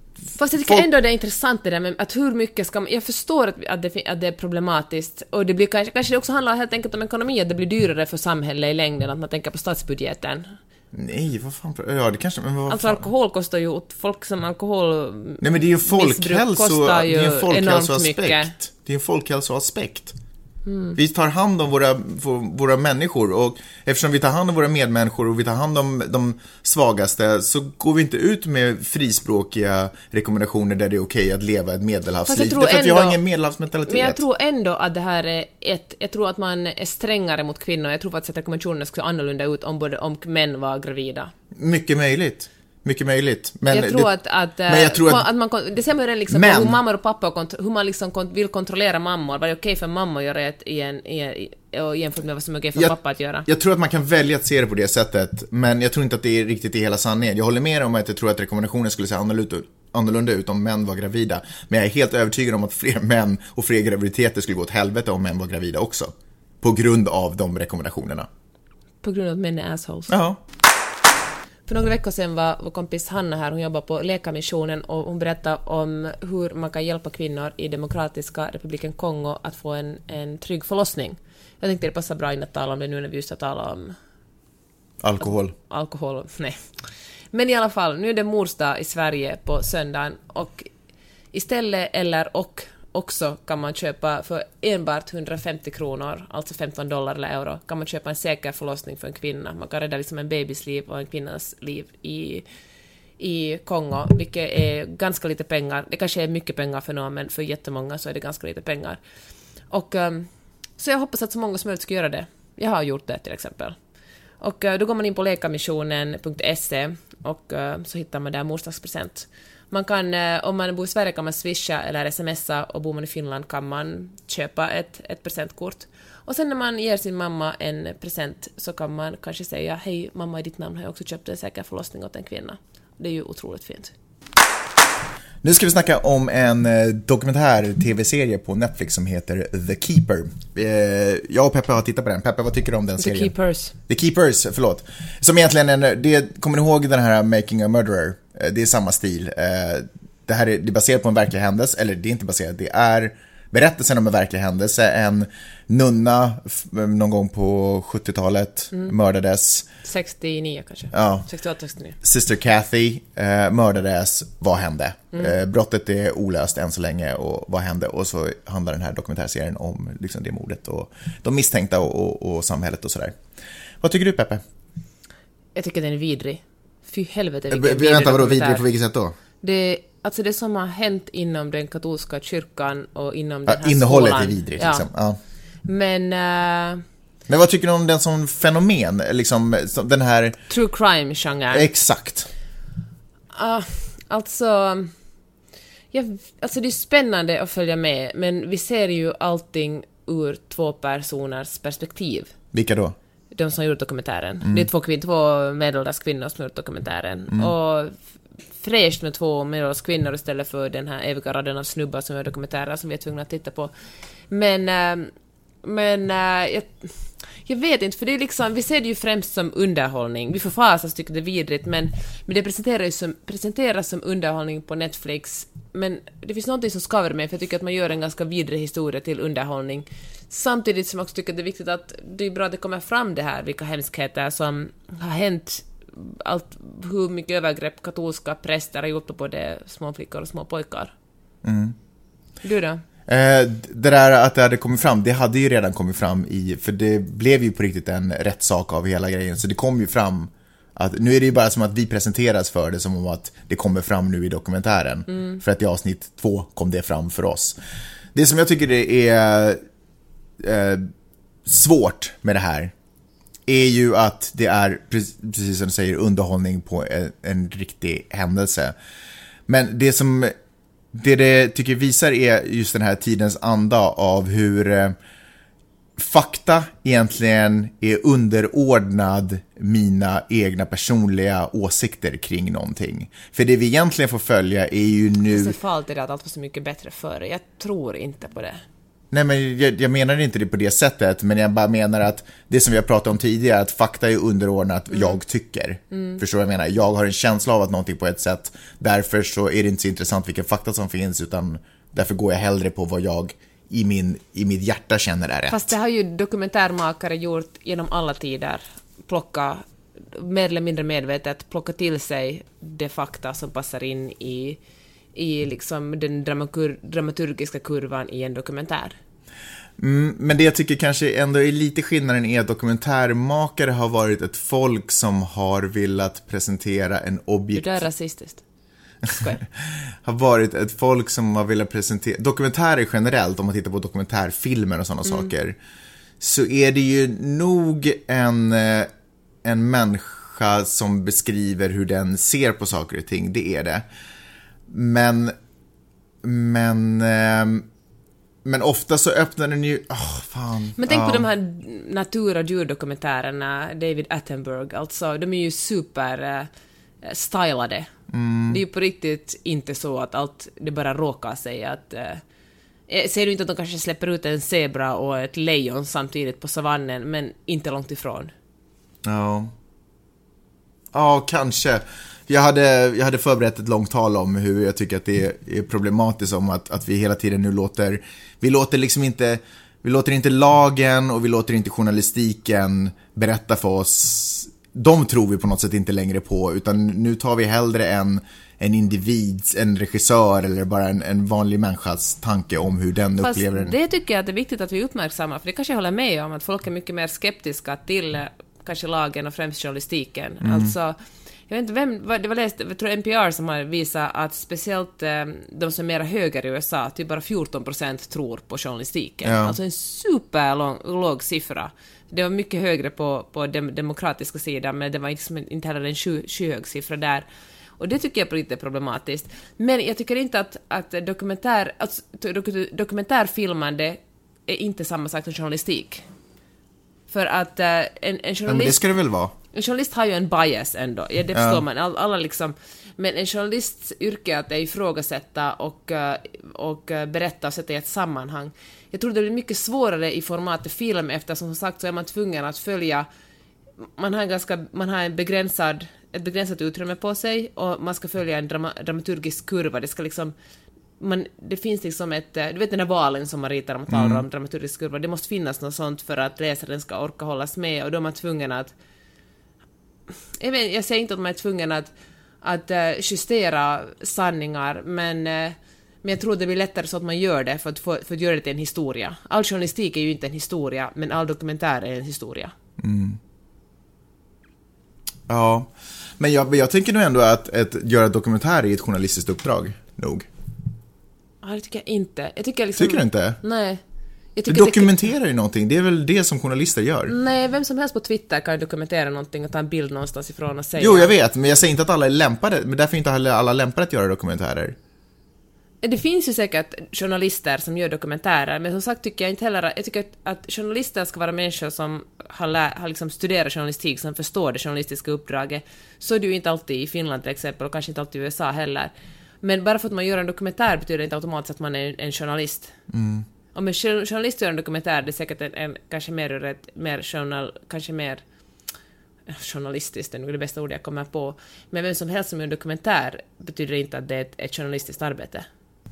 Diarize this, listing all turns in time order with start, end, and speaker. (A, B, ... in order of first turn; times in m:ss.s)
0:00.4-0:10.5 A
0:00.6-0:00.9 B
0:10.9-0:13.0 B
0:12.7-0:18.5 A
0:15.4-0:20.2 B
0:20.6-0:21.0 A
0:21.0-0:34.2 B
0:32.2-0:33.2 A
0:33.9-0:41.3 A
0:41.6-0:44.1 B
0:43.7-0:53.5 A
0:44.7-0:45.2 B
0:46.3-0:46.8 B
0:53.5-1:08.3 B
1:09.0-1:10.1 A
1:10.1-1:10.4 B
1:11.7-1:24.0 A
1:25.0-1:25.5 B
1:25.6-1:26.6 A
1:27.3-1:30.7 A
1:31.3-1:42.4 A
1:43.2-1:49.0 A
1:49.7-1:53.8 A
1:54.4-2:13.9 A
2:15.4-2:23.3 B
2:23.0-2:23.7 A
2:23.9-2:39.7 B
2:39.8-2:42.0 A
2:40.9-2:41.3 B
2:42.0-2:53.2 B
2:53.8-2:54.4 B
2:55.5-2:58.6 A
2:57.5-2:59.2 B
2:59.4-3:04.9 A
3:03.5-3:05.2 B
3:05.6-3:06.8 A
3:07.3-3:10.4 B
3:10.5-3:11.7 A
3:11.5-3:12.3 B
3:13.3-3:14.9 A
3:15.9-3:22.3 A
3:22.5-3:23.0 B
3:23.3-3:28.0 A
3:28.6-3:33.7 A
3:34.3-3:35.1 A
3:35.6-4:00.9 A
4:01.4-4:01.8 B
4:02.4-4:02.8 A
4:03.1-4:17.6 B
4:15.1-4:15.4 A
4:18.1-4:19.6 B
4:20.4-4:20.9 B
4:21.4-4:22.7 B
4:23.5-4:28.8 B
4:29.5-4:30.3 B
4:30.9-4:35.0 B
4:36.0-4:45.6 B
4:45.3-4:48.6 A
4:49.1-5:05.6 B
4:55.9-4:56.2 A
5:05.5-5:14.6 A
5:15.2-5:19.0 A
5:19.8-5:27.8 B
5:27.5-5:28.4 A
5:29.0-5:29.4 A
5:29.1-5:35.6 B
5:36.2-5:38.9 B
5:39.4-5:43.8 B
5:44.7-5:45.3 B
5:46.2-5:47.7 B
5:48.4-5:51.2 B
5:50.8-5:56.5 A
5:57.0-5:57.9 A
5:58.1-5:58.6 B
5:58.5-6:02.2 A
6:02.9-6:08.3 A
6:09.0-6:09.5 B
6:10.9-6:33.7 B
6:33.2-6:41.0 A
6:40.4-6:40.7 B
6:41.5-6:57.2 A
6:49.2-6:49.6 B
6:57.8-7:06.0 A
7:07.1-7:08.8 A
7:08.5-7:09.3 B
7:09.5-7:23.0 A
7:11.3-7:11.6 B
7:24.0-7:30.3 A
7:31.0-7:38.7 A
7:33.9-7:34.2 B
7:40.4-7:52.5 A
7:52.8-7:53.2 B
7:55.3-8:00.3 B
8:01.4-8:03.8 A
8:02.8-8:03.4 B
8:04.4-8:05.0 A
8:04.5-8:07.1 B
8:07.1-8:11.1 A
8:10.8-8:14.8 B
8:15.8-8:28.9 A
8:29.4-8:32.7 A
8:32.9-8:33.2 B
8:33.5-8:38.2 A
8:39.3-8:45.5 A